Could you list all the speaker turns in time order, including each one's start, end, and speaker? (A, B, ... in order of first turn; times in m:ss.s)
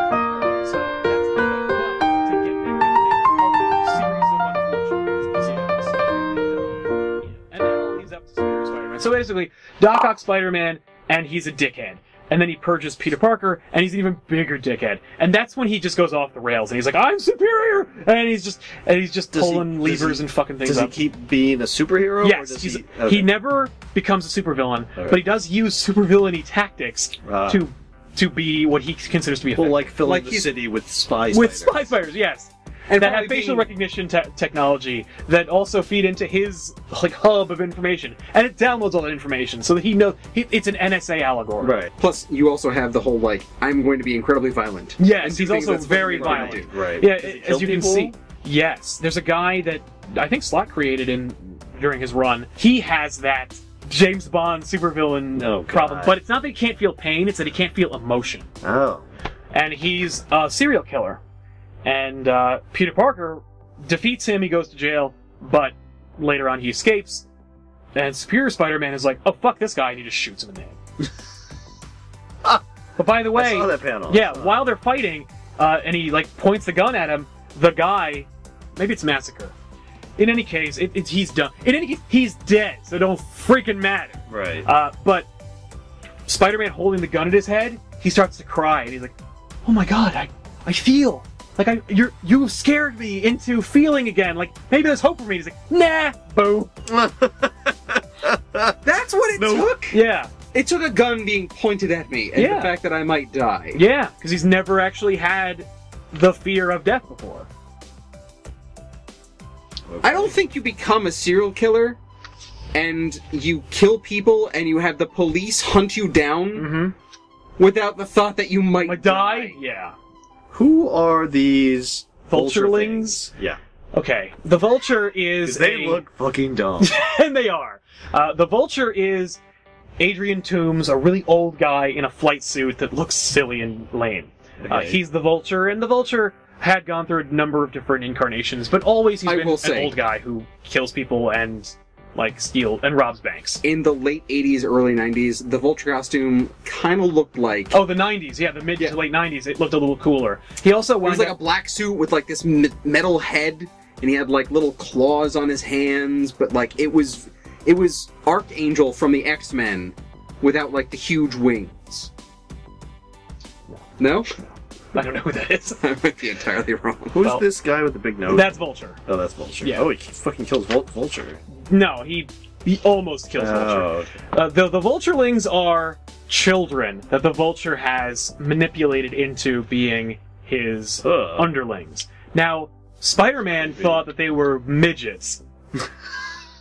0:00.4-0:06.1 A
0:06.1-0:06.6 B
0:07.2-0:20.9 A
0:19.3-0:23.3 B
0:22.2-0:30.0 A
0:25.0-0:25.2 B
0:27.2-0:27.6 B
0:29.6-0:31.9 B
0:30.0-0:30.4 C
0:31.3-0:41.8 A
0:32.9-0:33.7 C
0:41.6-0:41.9 B
0:42.0-0:46.7 C
0:45.0-0:58.5 A
0:46.2-0:48.1 B
0:55.3-0:56.2 B
0:58.6-0:59.0 B
0:59.5-1:01.2 A
1:01.8-1:07.2 A
1:07.9-1:10.8 A
1:13.0-1:19.5 A
1:13.3-1:14.6 B
1:20.2-1:25.3 A
1:24.3-1:24.7 B
1:26.3-1:36.7 A
1:36.9-1:38.8 B
1:38.8-1:40.0 C
1:39.4-1:39.8 B
1:39.9-1:40.3 A
1:40.5-1:43.8 C
1:42.3-1:42.7 A
1:43.7-1:47.5 A
1:49.9-1:50.4 B
1:50.0-1:52.0 C
1:52.7-1:56.7 C
1:56.5-1:56.9 A
1:57.6-1:59.6 C
1:58.8-1:59.9 A
2:00.5-2:03.6 B
2:02.3-2:03.2 A
2:03.9-2:06.0 A
2:05.4-2:06.9 B
2:06.8-2:09.4 A
2:10.0-2:23.6 A
2:14.6-2:15.0 B
2:19.2-2:19.9 C
2:23.6-2:27.8 C
2:27.7-2:31.4 A
2:31.0-2:42.1 C
2:44.0-2:44.3 C
2:44.9-2:45.8 A
2:45.8-2:47.2 C
2:47.1-2:51.4 B
2:48.3-2:49.0 A
2:49.6-2:49.9 A
2:51.5-3:05.4 A
2:53.4-2:54.1 B
3:01.0-3:01.5 B
3:03.6-3:04.0 B